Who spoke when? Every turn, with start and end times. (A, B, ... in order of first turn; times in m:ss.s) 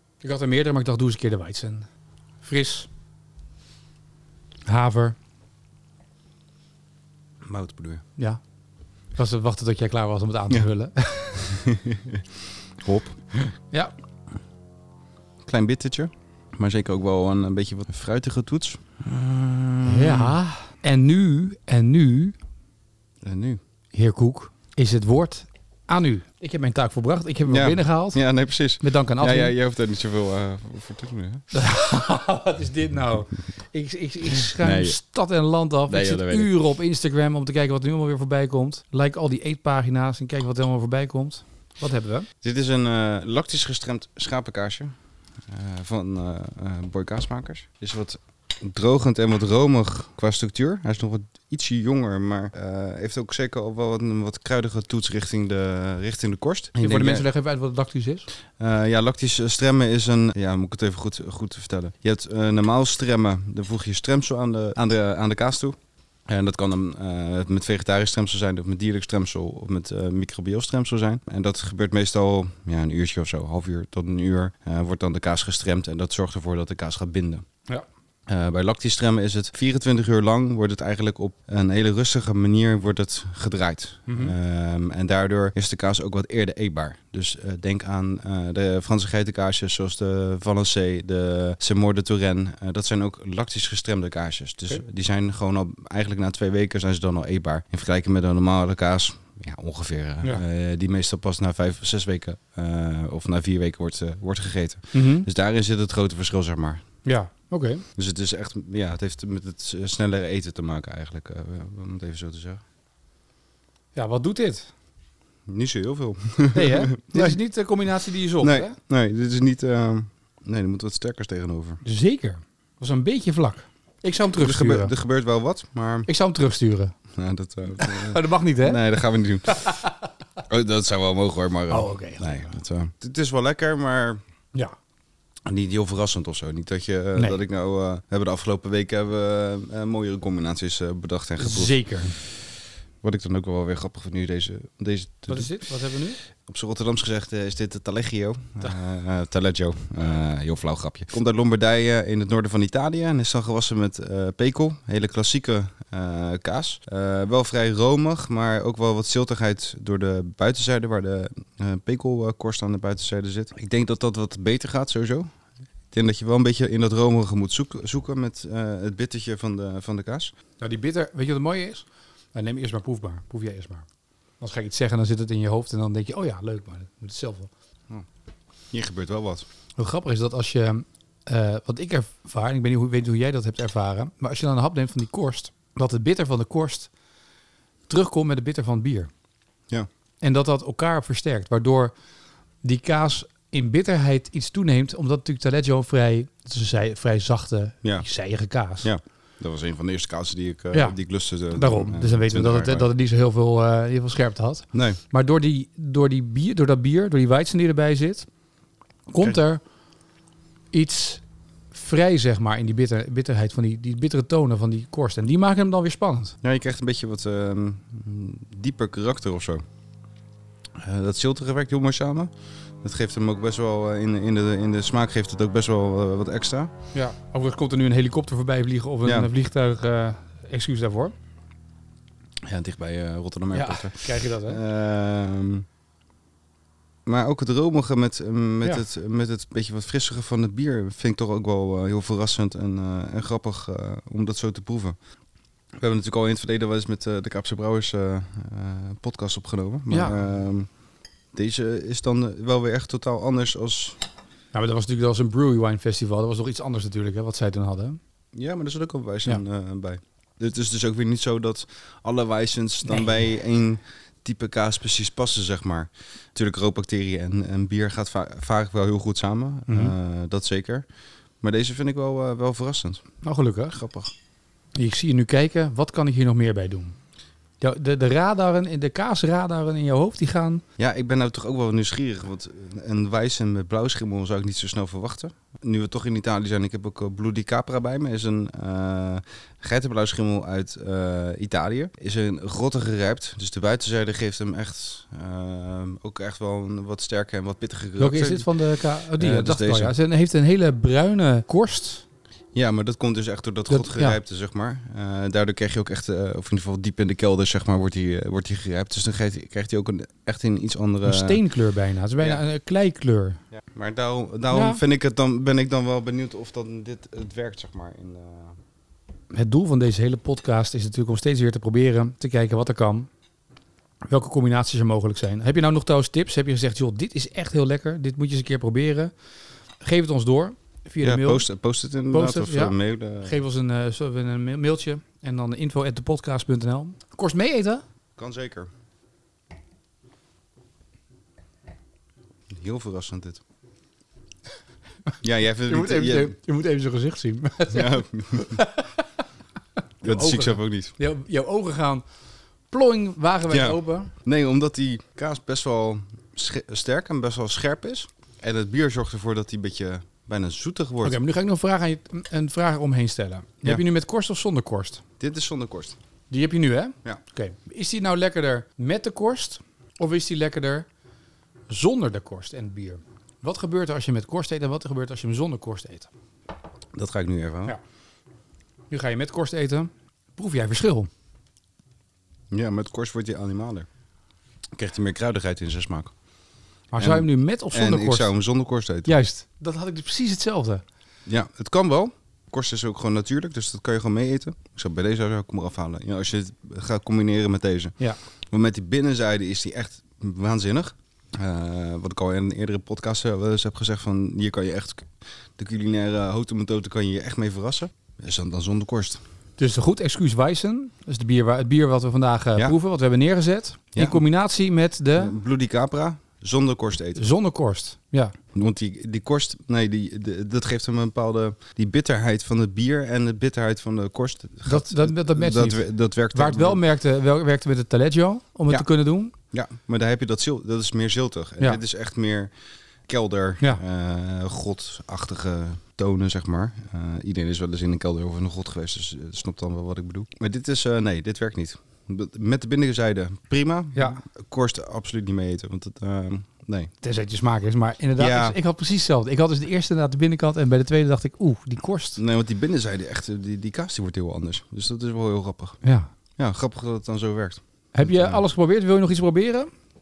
0:00.2-0:01.9 A
0:02.4-0:02.9 A
0:04.7-0:05.2 A
0:07.4-0:08.0 B
0:09.2-0:11.6 A
0:11.5-0:12.2 B
0:12.8-0:13.4 B
0:15.4-0:20.4 B
0:19.8-0:22.4 A
0:23.2-0:23.6 B
0:23.9-0:28.2 A
0:27.5-0:31.4 B
0:28.8-0:29.5 A
0:31.5-0:42.3 A
0:34.6-0:35.0 B
0:35.9-0:36.5 B
0:42.4-0:45.0 B
0:45.5-0:57.3 B
0:56.8-0:58.3 A
0:58.6-1:17.4 B
1:18.3-1:46.8 B
1:24.1-1:24.3 A
1:44.9-1:45.3 A
1:47.0-1:47.8 A
1:48.0-1:52.6 B
1:54.0-1:54.7 A
1:55.5-1:57.4 B
1:56.5-1:58.8 A
1:58.4-2:01.8 B
2:01.8-2:04.9 A
2:04.4-2:06.1 B
2:06.1-2:07.0 A
2:07.2-2:09.8 B
2:07.8-2:08.8 A
2:09.5-2:09.9 A
2:10.5-2:14.2 B
2:11.7-2:12.6 A
2:15.4-2:22.4 B
2:21.4-2:22.1 A
2:23.0-2:25.6 B
2:25.3-2:26.2 A
2:26.4-2:45.3 B
2:45.9-2:50.3 B
2:50.6-2:53.9 A
2:54.4-2:57.5 A
2:58.7-2:59.5 B
2:59.8-3:06.9 A
3:07.9-3:09.1 A
3:10.2-3:11.9 A
3:12.6-3:18.9 A
3:18.8-3:22.9 B
3:21.5-3:28.3 A
3:24.7-3:25.0 B
3:29.1-3:29.6 A
3:30.7-3:36.4 A
3:36.4-3:39.6 B
3:40.8-3:42.3 B
3:42.8-3:46.7 B
3:46.9-3:51.2 A
3:49.0-3:49.3 B
3:52.4-3:55.7 B
3:53.5-3:54.6 A
3:57.1-4:05.0 B
4:05.8-4:10.7 B
4:09.9-4:10.2 A
4:11.4-4:14.0 B
4:14.5-4:18.0 A
4:18.3-4:30.8 B
4:22.8-4:23.2 A
4:29.7-4:29.9 A
4:31.4-4:33.0 B
4:33.2-4:33.8 A
4:33.7-4:34.1 B
4:34.8-4:37.0 A
4:37.6-4:40.6 A
4:40.8-4:58.6 B
4:58.0-5:02.0 A
4:59.1-5:00.0 B
5:02.5-5:11.4 B
5:03.7-5:04.2 A
5:11.0-5:13.4 A
5:13.6-5:18.6 B
5:14.5-5:14.8 A
5:19.3-5:23.1 A
5:24.1-5:29.1 A
5:29.8-5:31.5 A
5:31.0-5:33.4 B
5:32.1-5:37.8 A
5:38.2-5:38.7 B
5:42.5-5:43.4 B
5:45.2-5:46.4 B
5:45.7-5:49.2 A
5:47.7-5:48.6 B
5:50.0-5:50.9 B
5:50.0-5:52.0 A
5:52.7-5:54.1 A
5:53.5-6:01.2 B
6:01.0-6:05.0 A
6:05.2-6:06.0 B
6:06.3-6:10.9 A
6:11.7-6:16.1 A
6:16.9-6:17.8 B
6:18.9-6:21.1 A
6:22.5-6:23.9 B
6:24.8-6:26.1 B
6:26.9-6:28.3 A
6:27.0-6:29.1 B
6:29.0-6:30.8 A
6:31.3-6:38.0 B
6:38.5-6:49.2 B
6:49.6-6:55.4 A
6:54.0-6:54.2 B
6:55.2-6:57.3 B
6:57.2-6:58.4 A
6:58.5-7:06.8 B
7:04.7-7:09.3 A
7:09.5-7:12.5 B
7:13.1-7:26.9 B
7:24.0-7:24.2 A
7:27.0-7:32.2 A
7:28.2-7:28.6 B
7:32.2-7:35.8 B
7:35.8-7:36.1 A
7:36.4-7:38.4 B
7:37.9-7:39.7 A